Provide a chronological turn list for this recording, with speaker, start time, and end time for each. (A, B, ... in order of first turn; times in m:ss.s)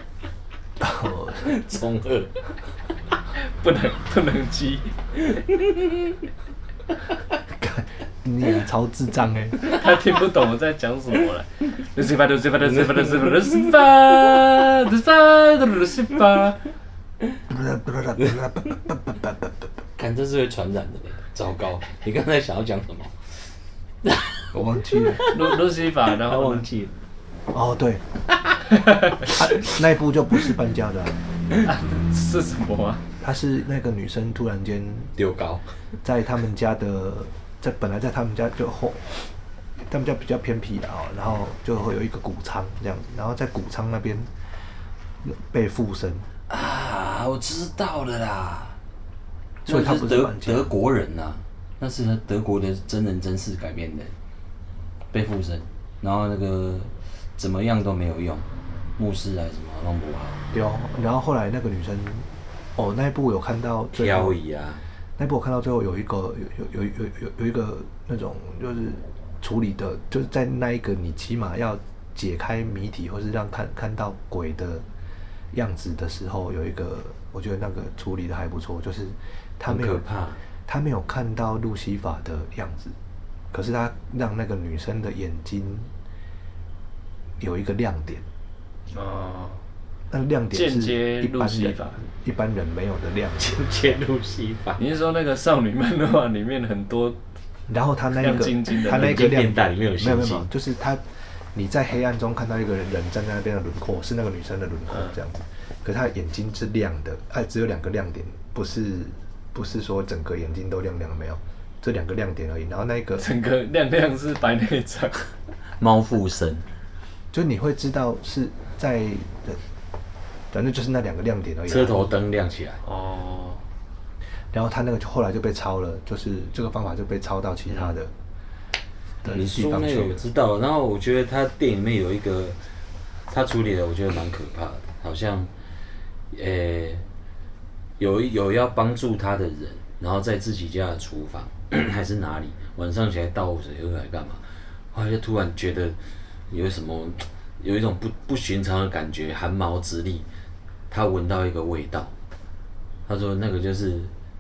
0:00.8-0:01.6 A
0:01.4-0:02.5 B
0:03.4-0:04.9 C
0:05.5-0:06.2 B
0:07.5-0:09.6 A
0:09.6-0:16.6 C
0:12.7-0:13.7 B
0:17.5-0:19.7 A
0:20.0-0:23.2 B
0:24.0-0:25.6 B
0:24.5-0:25.3 A
0:25.3-0:26.7 C
0:26.1-0:26.9 B
0:27.5-0:28.0 A
0:28.7-0:29.4 C
0:29.2-0:31.2 A
0:31.6-0:33.0 C
0:33.2-0:35.1 A
0:35.2-0:35.7 B
0:36.0-0:39.3 A
0:39.8-0:44.3 A
0:45.2-0:46.3 A
0:46.5-0:48.8 B
0:49.6-0:54.1 B
0:49.7-0:50.7 A
0:55.1-0:58.4 B
0:59.0-1:00.4 B
1:00.5-1:04.4 A
1:03.9-1:04.8 B
1:05.2-1:14.8 A
1:15.5-1:20.0 A
1:19.7-1:20.4 B
1:20.7-1:23.0 A
1:23.5-1:25.9 A
1:27.4-1:28.2 A
1:28.9-1:29.6 C
1:30.1-1:33.9 A
1:30.5-1:32.0 C
1:33.4-1:34.8 B
1:34.8-1:37.2 C
1:37.7-1:41.0 A
1:38.2-1:39.3 C
1:38.8-1:40.5 B
1:41.5-1:53.3 A
1:44.9-1:45.2 C
1:53.2-1:55.3 C
1:55.8-1:56.7 B
1:57.3-1:59.6 A
2:00.5-2:02.1 A
2:01.7-2:02.8 B
2:02.8-2:03.6 C
2:04.5-2:08.1 A
2:09.2-2:10.2 A
2:09.3-2:12.6 B
2:13.3-2:15.5 B
2:16.3-2:17.0 B
2:18.0-2:26.0 B
2:26.5-2:30.3 B
2:30.9-2:32.1 B
2:33.1-2:34.1 B